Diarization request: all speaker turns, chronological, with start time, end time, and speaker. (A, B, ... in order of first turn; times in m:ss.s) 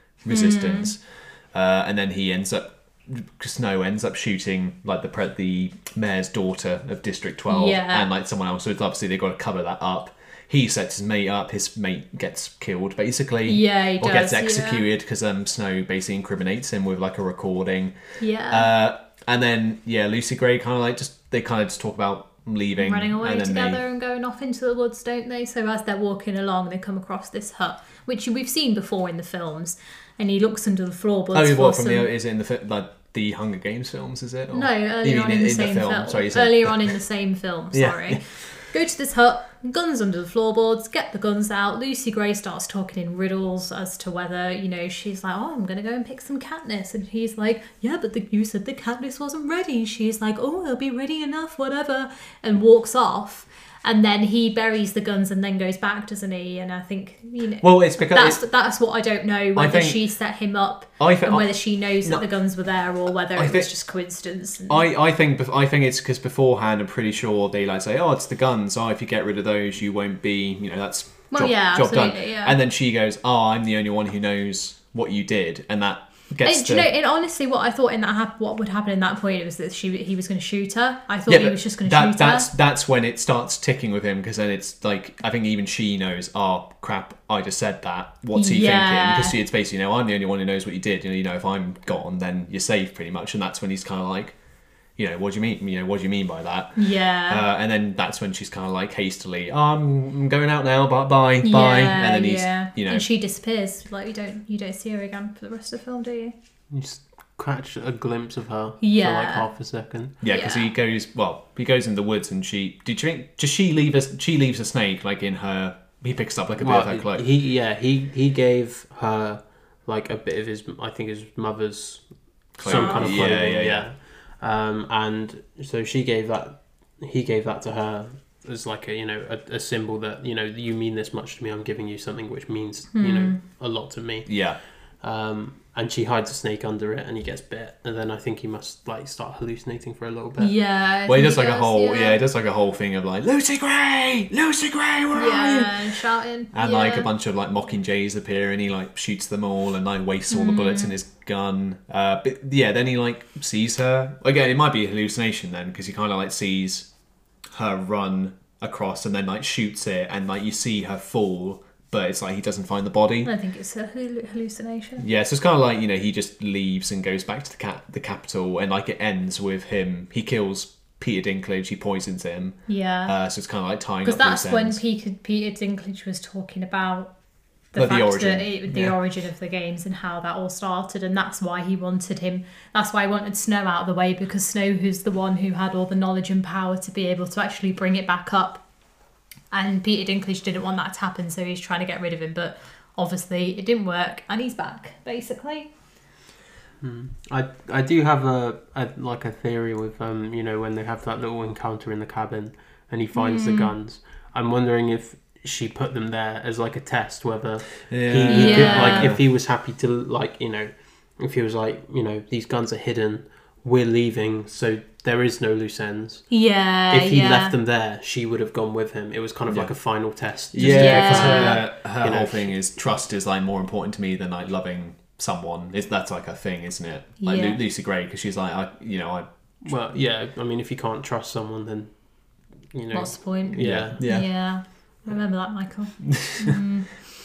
0:00.2-0:23.8 A
0:00.3-0:00.9 B
0:07.5-0:08.1 B
0:13.4-0:14.8 B
0:18.2-0:18.7 B
0:22.8-0:32.1 B
0:31.3-0:37.0 A
0:34.5-1:04.9 B
0:37.7-0:38.4 A
0:57.6-0:58.5 A
0:59.5-1:00.4 A
1:01.0-1:02.7 A
1:03.3-1:04.1 A
1:04.7-1:16.9 A
1:11.3-1:12.6 B
1:16.4-1:22.5 B
1:21.3-1:34.4 A
1:28.3-1:29.4 B
1:35.0-1:43.0 A
1:36.8-1:37.4 B
1:41.4-1:46.3 B
1:46.7-1:50.2 C
1:48.8-1:50.7 B
1:50.2-1:57.2 A
1:56.6-2:20.5 C
2:02.6-2:03.9 A
2:02.6-2:03.3 B
2:12.9-2:13.4 B
2:14.2-2:14.6 A
2:20.4-2:22.2 B
2:21.0-2:36.9 A
2:25.1-2:27.1 B
2:30.3-2:30.9 B
2:37.5-2:43.3 A
2:43.2-2:45.0 B
2:45.0-2:54.8 A
2:52.7-2:53.1 B
2:54.0-3:08.7 B
2:57.7-2:59.0 A
3:09.5-3:15.7 B
3:16.8-3:42.6 C
3:23.1-3:23.7 B
3:27.9-3:29.2 A
3:28.3-3:29.1 B
3:36.3-3:37.5 B
3:39.5-3:50.0 A
3:40.6-3:41.7 B
3:47.2-3:47.6 B
3:49.6-3:54.1 C
3:52.9-3:57.1 B
3:53.6-3:54.7 A
3:56.1-3:56.6 A